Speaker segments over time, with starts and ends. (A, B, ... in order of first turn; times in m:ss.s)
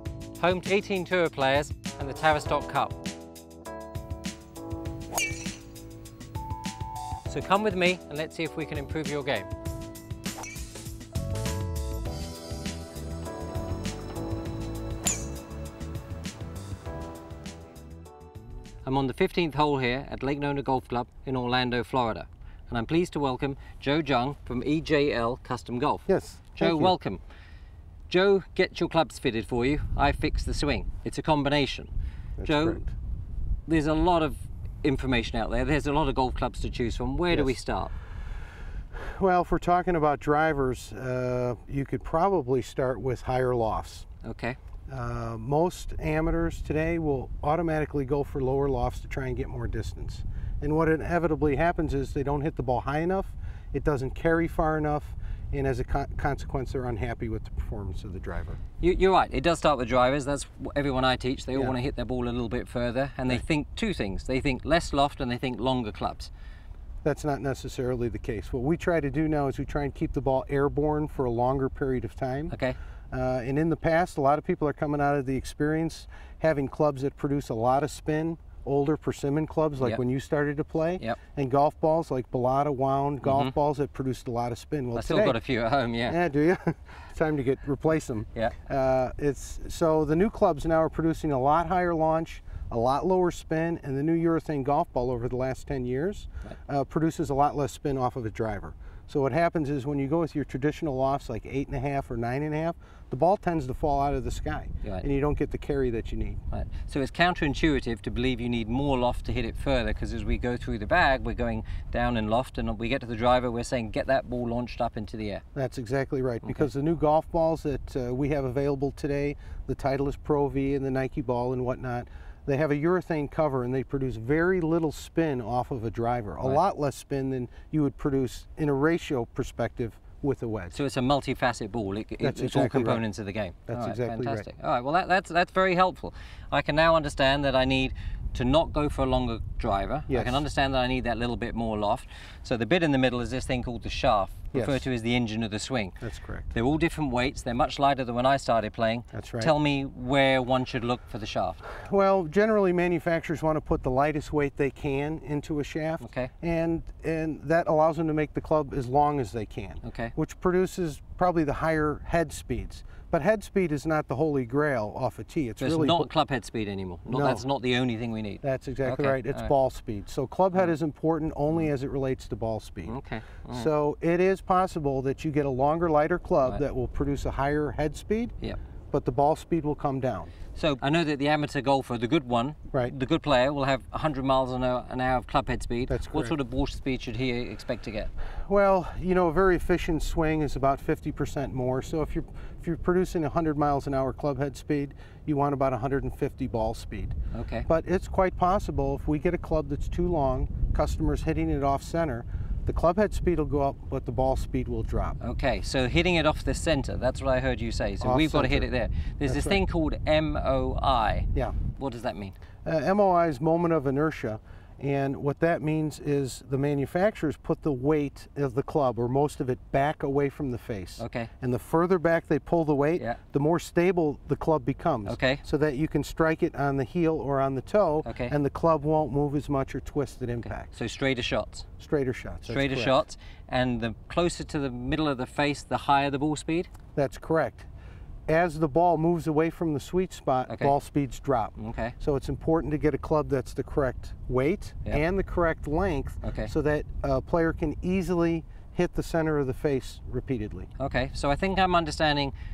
0:00.4-0:03.0 A
0:07.3-0:09.5 A
0:18.8-0:27.2 A
0:26.1-0:26.9 B
0:28.1-0:31.9 A
0:32.4-0:32.9 B
0:32.4-0:32.8 A
0:33.7-0:37.9 A
0:39.0-0:44.1 B
0:44.2-0:44.6 A
0:44.9-0:58.6 B
0:58.8-1:06.3 A
1:07.0-1:12.6 B
1:12.5-1:12.8 A
1:13.1-1:25.4 B
1:23.2-1:23.5 A
1:25.0-1:26.2 A
1:26.1-1:46.4 B
1:46.5-1:55.4 A
1:55.6-2:10.8 B
1:56.4-1:56.7 A
2:10.7-2:26.0 A
2:12.2-2:13.0 B
2:13.7-2:14.5 B
2:20.1-2:20.4 B
2:24.5-2:24.8 B
2:26.0-2:26.5 B
2:26.5-2:31.6 A
2:29.1-2:29.5 B
2:31.8-2:46.1 B
2:36.0-2:36.3 A
2:39.8-2:40.1 A
2:45.6-2:49.5 A
2:47.1-2:47.4 B
2:48.4-2:53.0 B
2:52.9-2:53.7 A
2:53.5-2:58.3 B
2:58.9-3:00.3 B
3:00.6-3:08.1 A
3:05.9-3:06.4 B
3:08.5-3:17.2 B
3:17.3-3:17.7 A
3:17.7-3:25.2 B
3:25.2-3:32.4 A
3:28.0-3:28.7 B
3:29.2-3:29.6 B
3:32.6-3:50.7 B
3:41.0-3:41.3 A
3:45.1-3:45.4 A
3:48.0-3:48.3 A
3:50.4-3:51.7 A
3:51.8-3:53.0 B
3:52.4-3:56.7 A
3:57.0-3:57.7 B
3:58.3-4:10.7 B
4:00.5-4:00.7 A
4:01.6-4:02.0 A
4:06.2-4:06.5 A
4:10.8-4:12.3 A